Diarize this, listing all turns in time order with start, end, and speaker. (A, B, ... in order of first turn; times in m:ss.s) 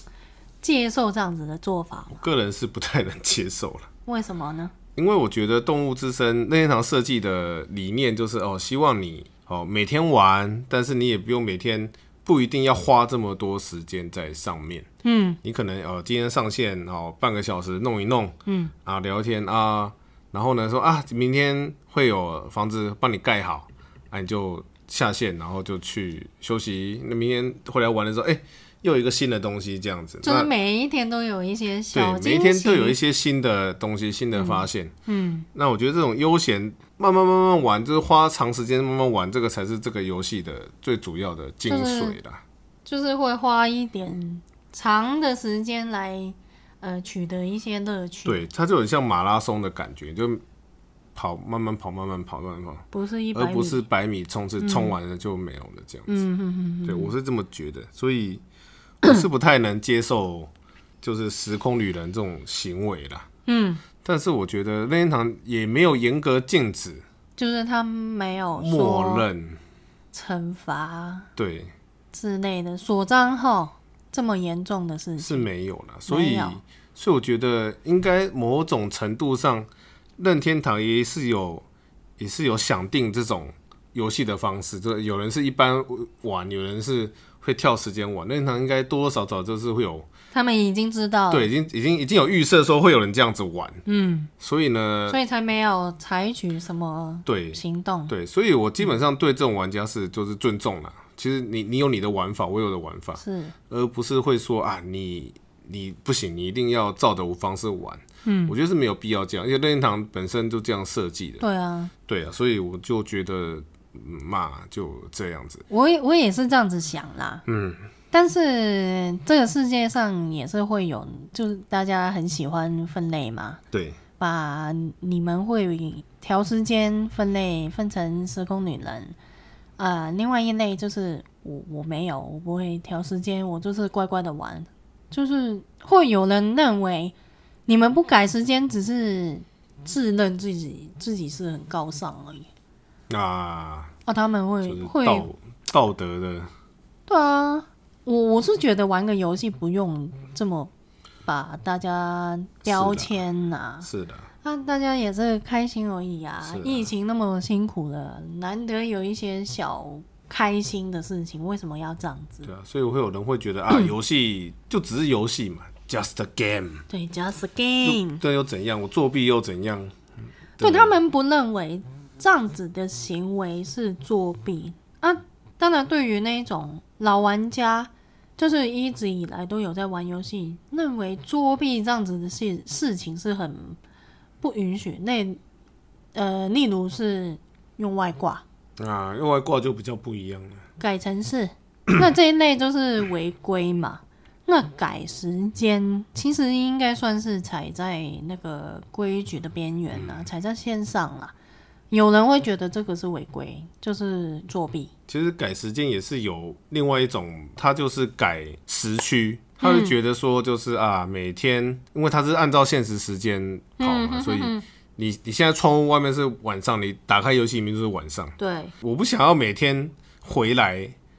0:00.6-0:02.2 A
0:02.2-0:03.9 B
0:04.0-0:04.7 A
0:05.0-0:14.9 B
0:15.0-0:15.4 A
0:15.4-0:30.5 B
0:18.4-0:18.7 A
0:30.2-0:33.0 A
0:31.9-0:34.9 B
0:34.3-0:35.5 A
0:35.5-0:42.4 B
0:41.7-0:42.2 A
0:42.8-0:48.5 A
0:48.2-0:50.4 B
0:51.1-0:56.2 B
0:52.9-0:53.8 A
0:54.6-0:54.9 A
0:56.1-0:57.1 A
0:56.8-0:58.4 B
0:59.0-1:00.5 B
1:01.0-1:03.3 B
1:03.4-1:03.8 A
1:04.0-1:07.0 B
1:07.4-1:09.2 A
1:08.6-1:09.6 B
1:10.1-1:11.3 A
1:11.4-1:11.7 B
1:12.1-1:15.4 A
1:15.2-1:21.6 B
1:16.1-1:16.6 A
1:22.2-1:30.1 B
1:30.3-1:31.5 A
1:31.3-1:33.8 B
1:33.8-1:34.3 A
1:34.4-1:35.2 B
1:35.1-1:38.1 A
1:37.2-1:51.4 B
1:43.2-1:43.5 A
1:48.2-1:48.5 A
1:51.4-1:51.9 A
1:52.1-1:55.6 B
1:55.7-1:57.4 A
1:57.4-1:57.8 B
1:58.1-2:03.6 A
2:03.7-2:04.0 B
2:04.2-2:09.2 A
2:09.8-2:17.1 A
2:17.7-2:22.5 A
2:23.1-2:23.9 B
2:24.0-2:25.3 A
2:24.6-2:26.5 B
2:27.1-2:30.7 A
2:31.2-2:33.9 A
2:32.6-2:33.2 B
2:33.8-2:34.3 B
2:34.4-2:42.5 A
2:36.4-2:36.9 B
2:42.4-2:46.8 B
2:46.9-2:48.2 A
2:47.8-2:50.0 B
2:50.6-2:51.0 B
2:50.6-3:03.8 A
3:04.4-3:05.4 A
3:06.1-3:08.4 A
3:08.8-3:10.6 B
3:10.8-3:21.3 A
3:19.9-3:20.2 B
3:21.9-3:24.9 A
3:25.1-3:40.9 B
3:29.6-3:29.9 A
3:33.8-3:34.6 A
3:38.4-3:38.7 A